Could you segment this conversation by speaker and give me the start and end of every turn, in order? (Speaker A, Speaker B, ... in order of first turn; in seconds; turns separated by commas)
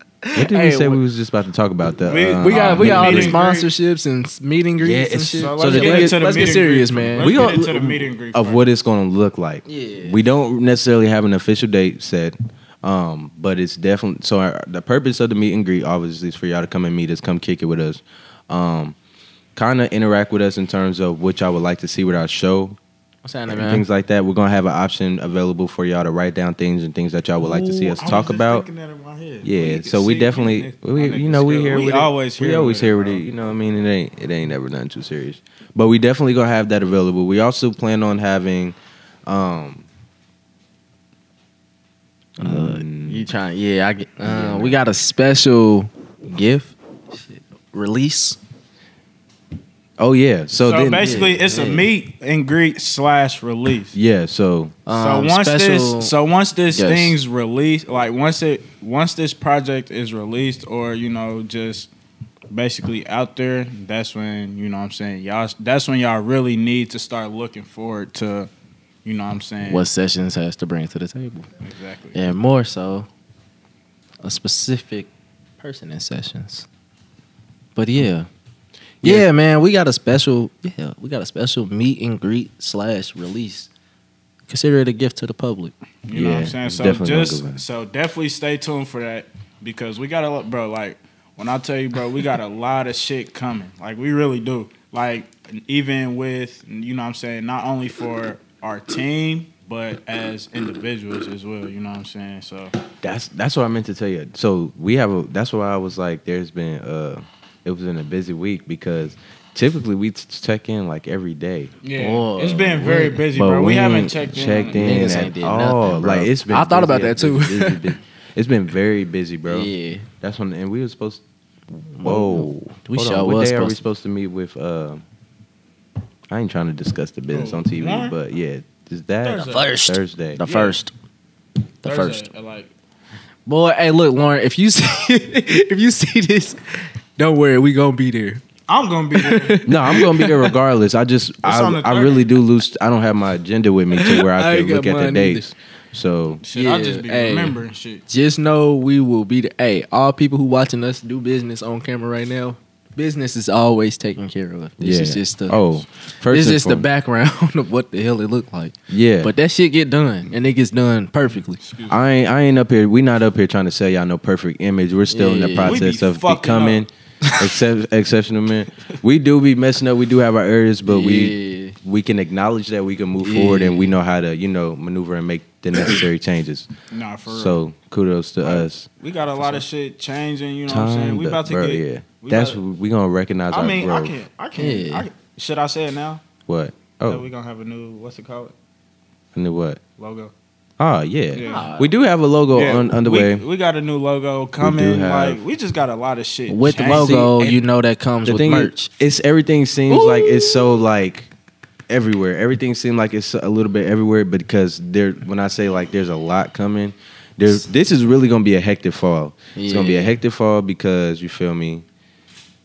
Speaker A: 0.2-1.0, Speaker B: 0.3-3.4, Speaker C: 2.0-3.7, Speaker A: 2.4-7.4, Speaker B: 4.8-6.5, Speaker C: 5.4-8.7, Speaker B: 7.2-19.0, Speaker A: 9.7-10.2, Speaker B: 19.6-22.8, Speaker A: 23.2-23.9, Speaker B: 23.5-28.7, Speaker C: 27.4-33.2, Speaker B: 29.4-39.9, Speaker A: 42.4-48.4, Speaker B: 42.4-43.3, Speaker B: 44.2-44.8, Speaker B: 50.0-51.3, Speaker C: 50.6-54.0, Speaker A: 51.0-51.9, Speaker B: 53.9-54.8, Speaker A: 54.9-56.1, Speaker C: 54.9-61.9, Speaker A: 56.7-57.2, Speaker C: 62.5-68.5, Speaker C: 69.0-69.9, Speaker A: 69.7-71.5, Speaker C: 71.6-72.2, Speaker A: 72.1-73.1, Speaker A: 74.2-76.7, Speaker A: 77.8-78.3, Speaker A: 79.0-83.7, Speaker A: 84.5-85.7, Speaker C: 86.1-102.8, Speaker B: 86.1-87.6, Speaker B: 103.0-111.7, Speaker C: 111.8-115.2, Speaker A: 111.9-113.3, Speaker B: 112.8-121.2, Speaker A: 114.7-118.0, Speaker A: 119.5-120.1, Speaker A: 121.9-123.8, Speaker B: 122.0-125.0, Speaker B: 126.3-130.4, Speaker C: 127.3-128.2, Speaker C: 129.2-129.7, Speaker A: 129.4-130.9, Speaker C: 130.4-130.8, Speaker A: 131.8-132.3, Speaker C: 131.8-132.7, Speaker A: 133.5-138.4, Speaker C: 138.7-139.7, Speaker A: 139.2-140.5, Speaker B: 139.7-146.4, Speaker C: 141.4-142.3, Speaker A: 144.0-145.5, Speaker C: 146.4-148.0, Speaker A: 146.5-161.6, Speaker B: 154.8-156.9, Speaker B: 158.9-159.3, Speaker C: 161.6-162.0, Speaker B: 161.9-176.7, Speaker A: 165.1-165.8, Speaker C: 165.6-166.8, Speaker A: 170.8-171.8, Speaker A: 173.2-173.9, Speaker C: 176.9-177.6, Speaker B: 177.3-178.9, Speaker C: 178.4-182.6, Speaker B: 180.7-184.2, Speaker C: 183.5-186.2, Speaker A: 184.6-185.1, Speaker B: 186.5-187.3, Speaker C: 187.1-188.5, Speaker B: 189.3-189.8, Speaker C: 190.0-190.3, Speaker B: 190.8-193.4, Speaker C: 191.3-191.7, Speaker A: 191.4-191.9, Speaker C: 192.5-197.1, Speaker B: 194.6-195.4, Speaker A: 196.5-198.9, Speaker B: 196.7-197.6, Speaker B: 198.2-201.3, Speaker A: 199.9-200.8, Speaker B: 201.9-211.8, Speaker A: 209.6-210.2